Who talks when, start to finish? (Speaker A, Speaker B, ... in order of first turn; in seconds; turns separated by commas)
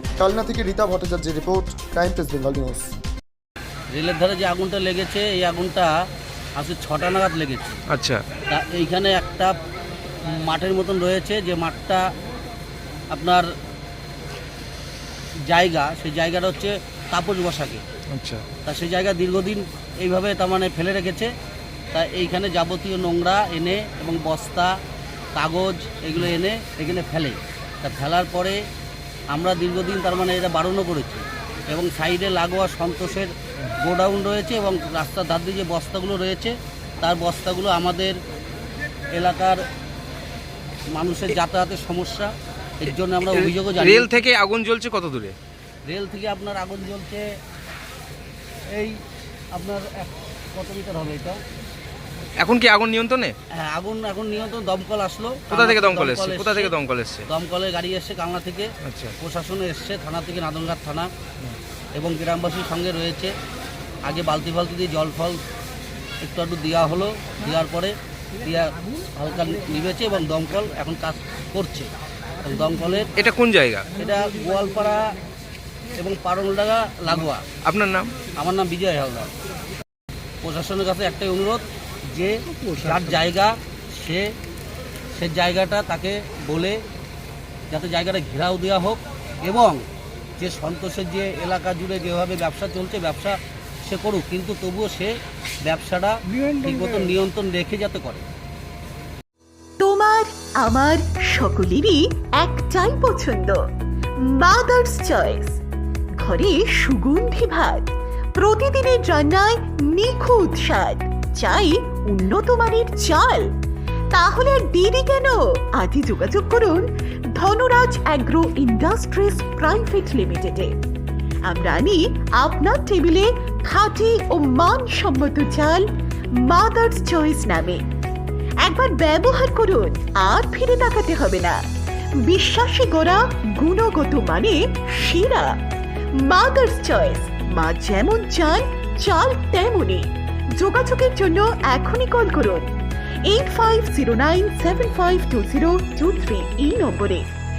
Speaker A: 0.2-2.9, Speaker B: 3.9-5.9, Speaker B: 6.6-7.8, Speaker C: 7.9-8.2, Speaker B: 8.5-9.5, Speaker B: 10.3-12.1, Speaker B: 13.1-13.5, Speaker B: 15.4-17.8, Speaker C: 18.1-18.4, Speaker B: 18.6-21.3, Speaker B: 21.9-24.7, Speaker B: 25.3-28.6, Speaker B: 29.3-38.2, Speaker B: 39.1-39.6, Speaker B: 40.9-44.2, Speaker C: 43.2-45.4, Speaker B: 45.9-47.2, Speaker B: 48.7-49.0, Speaker B: 49.5-51.4, Speaker C: 52.4-53.3, Speaker B: 53.5-56.7, Speaker C: 55.5-57.3, Speaker B: 57.3-61.1, Speaker C: 58.8-59.1, Speaker B: 61.9-63.3, Speaker B: 64.0-65.4, Speaker B: 66.2-71.9, Speaker B: 72.4-73.1, Speaker C: 73.2-73.9, Speaker B: 73.9-75.1, Speaker B: 76.0-77.4, Speaker C: 77.6-78.1, Speaker B: 78.3-79.3, Speaker B: 80.4-84.3, Speaker B: 85.1-86.8, Speaker B: 87.7-89.8, Speaker B: 90.4-98.2, Speaker D: 99.8-103.6, Speaker D: 104.3-105.6, Speaker D: 106.2-113.5, Speaker D: 114.1-120.8, Speaker D: 121.5-125.9, Speaker D: 126.4-127.8, Speaker D: 128.6-131.6, Speaker D: 132.2-135.5, Speaker D: 136.2-142.7, Speaker D: 143.3-147.3